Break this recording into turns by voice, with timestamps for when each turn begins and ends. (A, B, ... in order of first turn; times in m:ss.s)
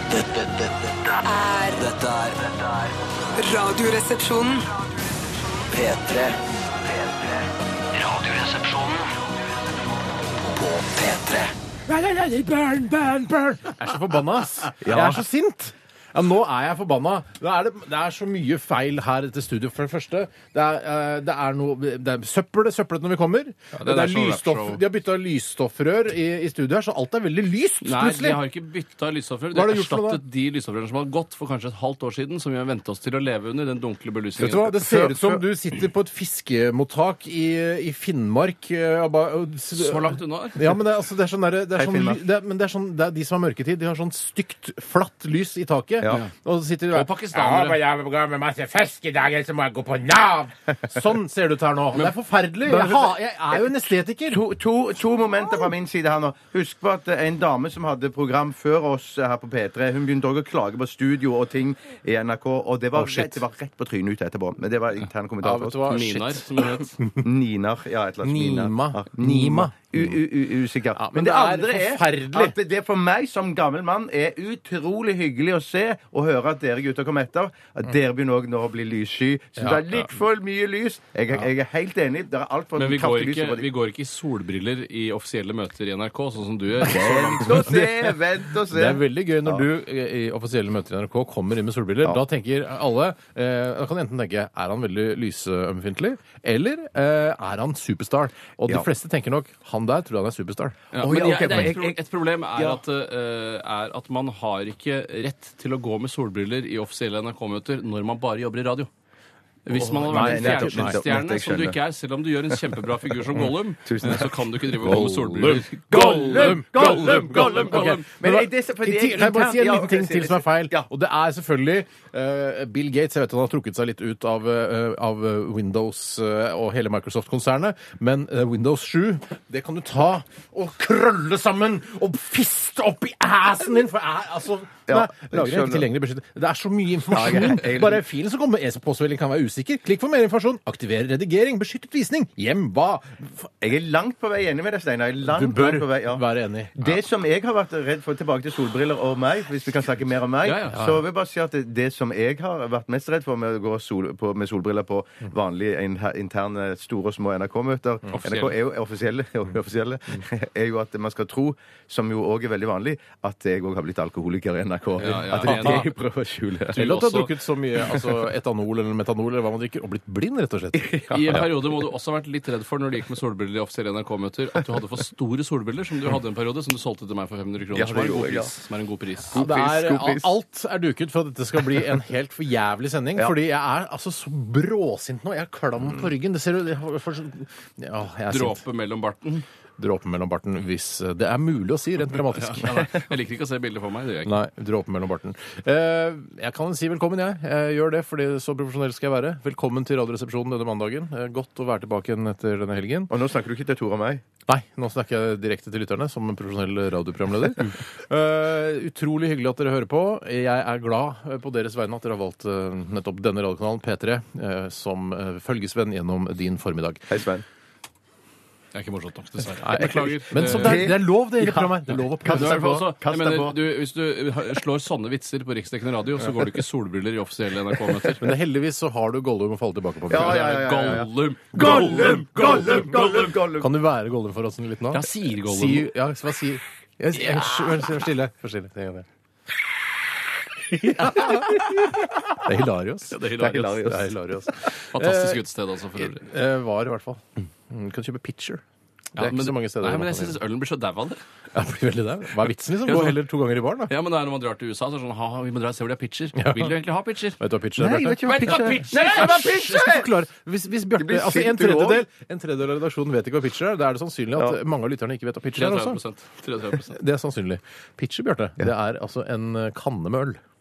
0:00.1-0:01.1 A
0:01.1-0:01.9 B
0:01.7-0:03.0 A
0:03.4-0:04.7 B
0:05.7-0:09.1 A
0:10.5-0:11.5 A
0:11.9-0:28.4 C
0:14.8-0:15.2 D
0:23.8-0:24.8 E
0:27.8-0:34.7 E
0:29.5-0:30.2 C
0:34.4-0:54.4 C
0:34.8-0:35.4 D
0:39.8-0:40.7 E
0:41.8-0:42.2 D
0:46.9-0:47.8 E
0:52.7-0:53.6 D
0:54.3-1:06.0 D
1:03.0-1:03.4 C
1:05.4-1:06.4 C
1:05.9-1:07.0 E
1:07.2-1:23.7 D
1:08.2-1:10.2 C
1:11.0-1:12.6 C
1:19.6-1:20.1 C
1:22.8-1:27.9 E
1:26.8-1:29.6 D
1:27.5-1:28.1 C
1:28.7-1:40.8 C
1:40.9-1:48.9 E
1:41.0-1:42.0 D
1:49.7-1:58.0 E
1:49.7-1:51.8 D
1:50.1-1:51.0 C
1:53.8-1:54.7 D
1:54.8-2:23.5 C
1:55.9-2:00.9 D
2:14.9-2:15.9 D
2:17.1-2:18.0 D
2:23.6-2:26.2 D
2:25.3-2:26.9 C
2:26.8-2:47.0 D
2:30.4-2:31.0 E
2:38.1-2:38.6 E
2:45.0-2:45.9 E
2:45.4-2:45.8 C
2:46.7-2:51.5 C
2:46.8-2:47.3 E
2:50.8-2:51.5 D
2:51.1-2:59.4 E
2:57.7-2:58.6 D
2:59.3-3:00.3 D
2:59.3-3:08.6 C
3:08.3-3:09.5 E
3:09.8-3:12.8 C
3:12.1-3:14.4 E
3:14.2-3:23.1 C
3:23.1-3:24.2 D
3:24.5-3:37.1 C
3:37.1-3:37.4 D
3:38.7-3:41.0 E
3:39.6-3:42.9 C
3:40.4-3:43.6 D
3:42.2-3:48.3 E
3:48.2-3:50.5 C
3:50.1-3:53.7 D
3:50.1-3:53.4 E
3:51.6-3:52.2 C
3:53.6-3:59.1 C
3:54.9-3:55.9 E
4:00.8-4:02.0 D
4:00.8-4:01.8 C
4:02.4-4:05.4 C
4:03.1-4:03.8 E
4:03.4-4:04.1 D
4:04.9-4:06.2 E
4:06.0-4:08.6 C
4:09.2-4:10.4 C
4:09.2-4:11.2 E
4:11.5-4:13.9 C
4:12.9-4:13.2 E
4:13.9-4:17.4 E
4:16.4-4:16.8 C
4:17.4-4:26.0 C
4:17.8-4:20.1 D
4:18.2-4:19.8 E
4:21.0-4:22.0 D
4:25.5-4:27.0 E
4:26.9-4:30.4 C